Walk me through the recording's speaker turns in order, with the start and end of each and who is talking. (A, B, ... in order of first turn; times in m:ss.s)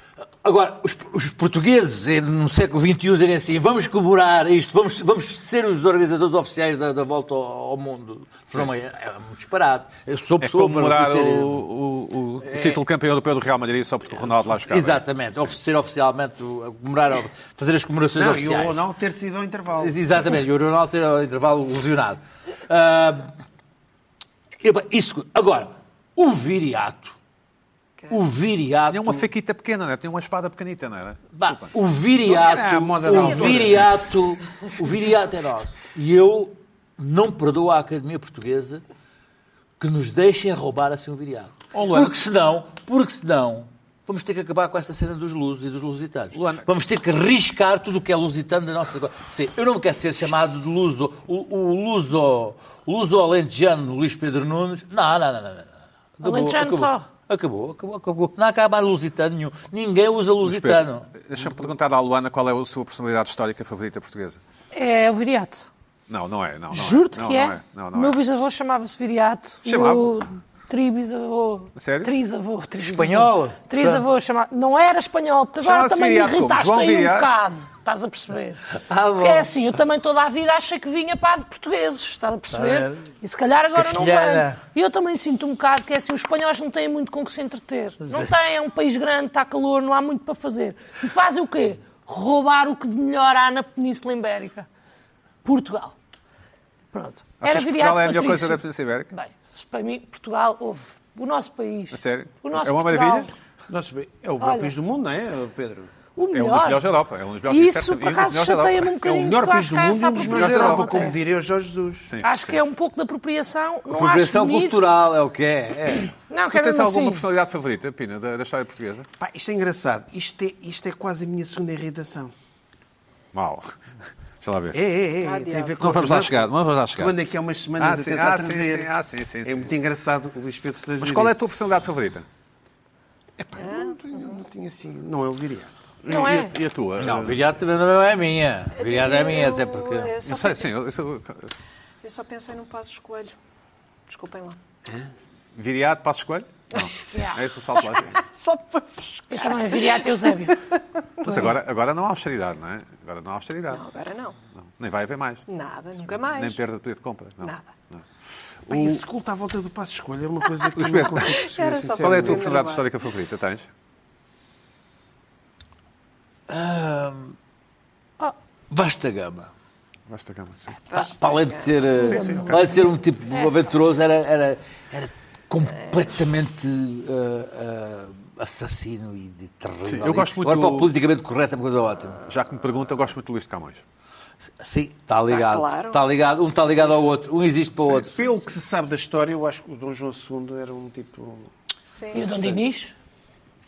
0:00.4-0:11.6 A
0:10.4-0:15.5 B
0:12.4-0:12.8 A
0:14.5-0:18.8 A
0:18.2-0:20.2 C
0:19.8-0:23.3 A
0:24.6-0:27.2 A
0:28.1-0:29.3 A
0:28.9-0:31.7 B
0:31.4-0:38.8 A
0:32.2-0:33.9 C
0:33.1-0:33.7 D
0:39.8-1:01.1 A
0:41.7-0:42.2 B
0:46.3-0:46.7 B
0:56.2-0:57.1 E
1:00.4-1:04.4 B
1:04.7-1:05.7 E
1:06.1-1:08.2 B
1:06.7-1:18.6 E
1:09.6-1:10.2 B
1:11.8-1:12.1 B
1:12.8-1:14.0 A
1:15.6-1:17.3 B
1:18.7-1:19.5 A
1:19.2-1:34.7 E
1:22.5-1:23.1 A
1:23.8-1:24.6 A
1:28.0-1:28.3 A
1:35.4-1:35.9 E
1:36.9-1:43.3 E
1:37.4-1:39.1 B
1:41.9-1:43.3 B
1:43.7-1:45.9 C
1:44.4-1:44.7 E
1:46.2-1:46.9 E
1:46.3-1:49.0 B
1:47.5-1:51.2 E
1:49.0-1:52.1 C
1:50.2-1:51.1 B
1:52.1-1:52.6 B
1:52.2-1:54.8 E
1:53.9-1:56.1 A
1:56.3-1:57.2 E
1:56.5-1:59.1 B
1:59.2-2:02.3 C
2:03.3-2:03.8 B
2:04.4-2:04.8 B
2:04.7-2:08.9 C
2:05.2-2:05.8 D
2:05.8-2:07.2 B
2:07.8-2:09.7 B
2:09.4-2:11.4 C
2:11.0-2:12.3 B
2:13.4-2:15.7 C
2:13.6-2:14.4 D
2:16.0-2:17.4 B
2:16.1-2:16.6 E
2:17.0-2:20.1 A
2:18.8-2:20.8 D
2:20.2-2:21.5 B
2:22.0-2:23.4 D
2:24.1-2:24.6 D
2:24.8-2:25.1 C
2:25.6-2:28.2 B
2:26.7-2:31.6 D
2:29.3-2:30.6 E
2:31.2-2:33.8 B
2:33.7-2:34.4 D
2:34.8-2:35.4 B
2:35.5-2:36.6 D
2:36.0-2:38.0 B
2:37.4-2:37.7 D
2:38.7-2:39.0 B
2:38.7-2:42.5 C
2:40.7-2:41.3 B
2:41.2-2:42.9 D
2:42.0-2:43.7 B
2:46.5-2:47.4 A
2:48.7-2:49.5 A
2:50.1-2:50.8 B
2:50.9-2:52.1 D
2:50.9-3:02.2 A
2:52.0-2:53.6 E
2:52.1-2:52.7 B
2:59.9-3:00.9 B
3:02.3-3:03.8 B
3:04.6-3:08.3 A
3:05.3-3:06.0 D
3:07.9-3:11.5 C
3:11.9-3:12.4 D
3:12.1-3:12.9 E
3:12.2-3:12.6 C